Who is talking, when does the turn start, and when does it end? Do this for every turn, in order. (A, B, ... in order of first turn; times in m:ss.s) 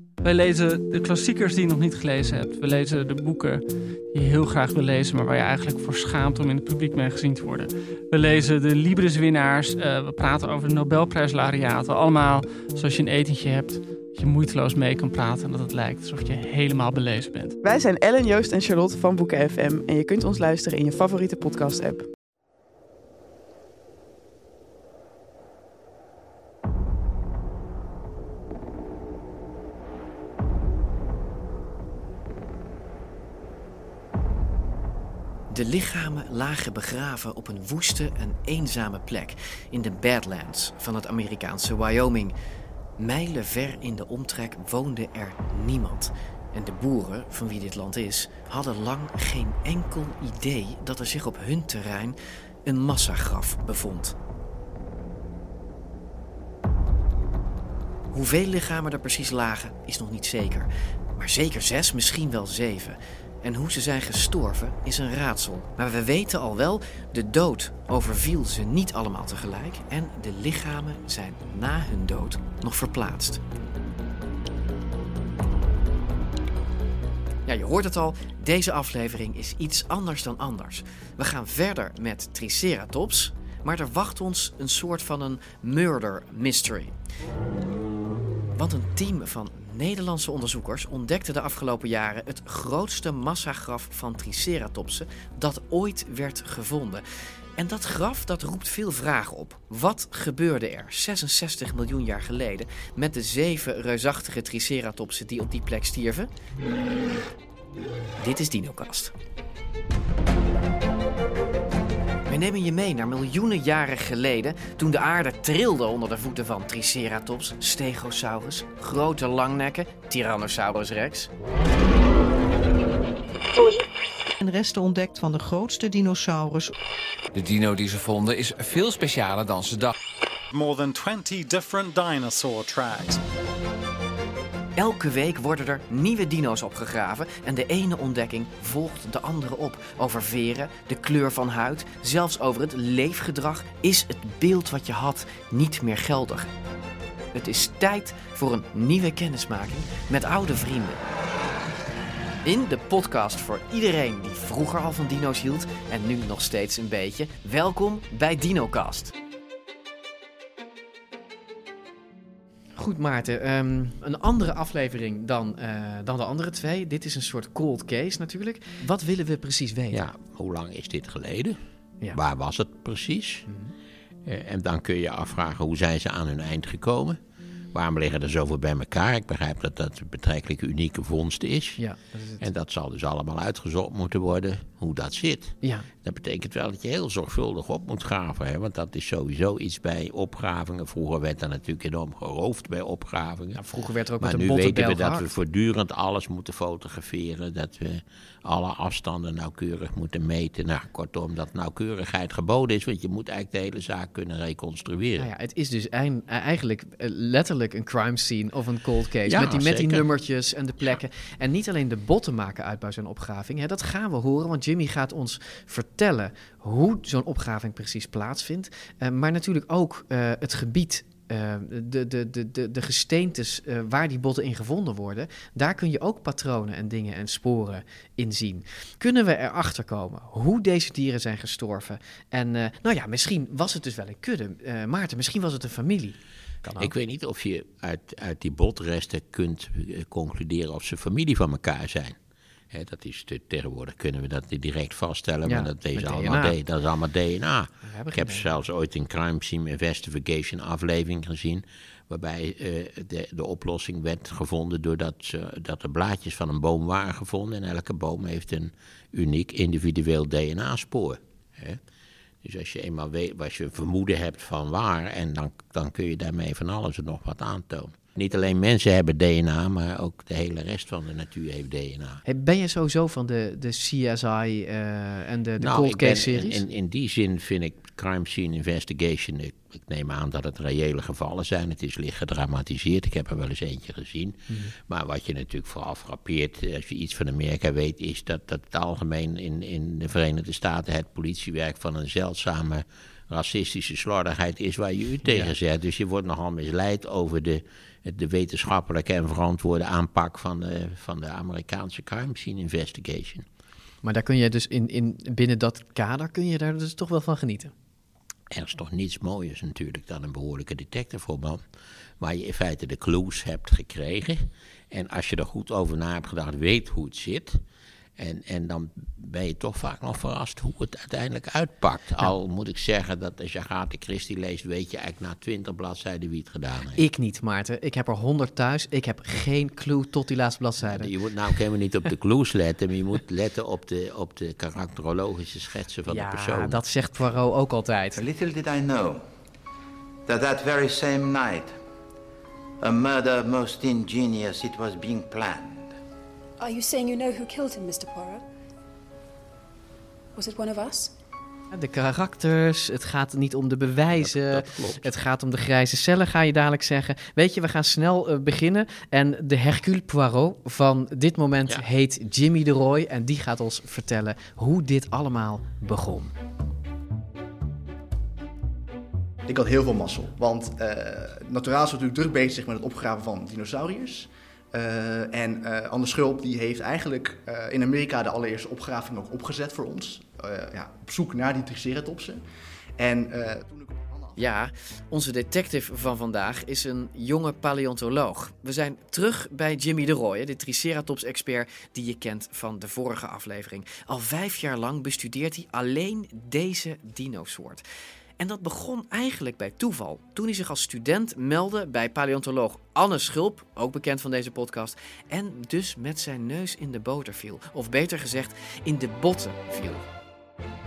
0:00.2-0:17.6 A
0:17.6-0:22.1 B
0:35.5-0:42.3 C
0:43.0-0:54.1 C
0:58.1-1:13.4 C
1:17.4-1:26.9 C
1:28.5-1:37.0 C
1:37.6-1:46.3 C
1:48.2-1:49.1 C
1:52.3-2:01.3 C
2:04.4-2:06.7 D
2:07.3-2:09.9 E
2:10.5-2:13.2 F
2:14.8-2:26.5 C
2:27.3-2:31.1 C
2:32.4-2:39.1 C
2:42.8-2:50.0 C
2:49.9-2:51.6 G
2:52.1-2:53.4 G
2:53.5-2:53.7 C
2:54.2-2:57.2 G
2:57.7-3:01.8 G
3:01.8-3:02.5 C
3:02.4-3:13.6 G
3:05.6-3:05.9 C
3:13.6-3:15.3 C
3:14.2-3:25.3 G
3:25.2-3:56.9 C
3:29.2-3:30.0 G
3:56.8-4:02.2 G
4:02.7-4:21.8 G
4:05.4-4:06.6 C
4:07.8-4:08.5 C
4:22.4-4:32.2 G
4:32.2-4:36.6 C
4:35.6-5:03.4 G
4:55.2-4:55.5 C
5:04.0-5:07.7 C
5:08.5-5:11.6 G
5:12.2-5:17.6 G
5:18.2-5:27.0 G
5:27.0-5:31.1 C
5:30.8-5:36.8 G
5:36.1-5:38.2 C
5:38.1-5:39.2 H
5:40.2-5:41.8 H
5:42.8-5:46.0 H
5:46.6-5:48.4 I
5:50.3-5:51.1 I
5:51.7-6:06.3 C
5:54.1-5:55.1 G
6:09.4-6:22.4 J
6:23.0-6:24.4 J
6:24.4-6:37.8 C
6:38.4-6:50.0 C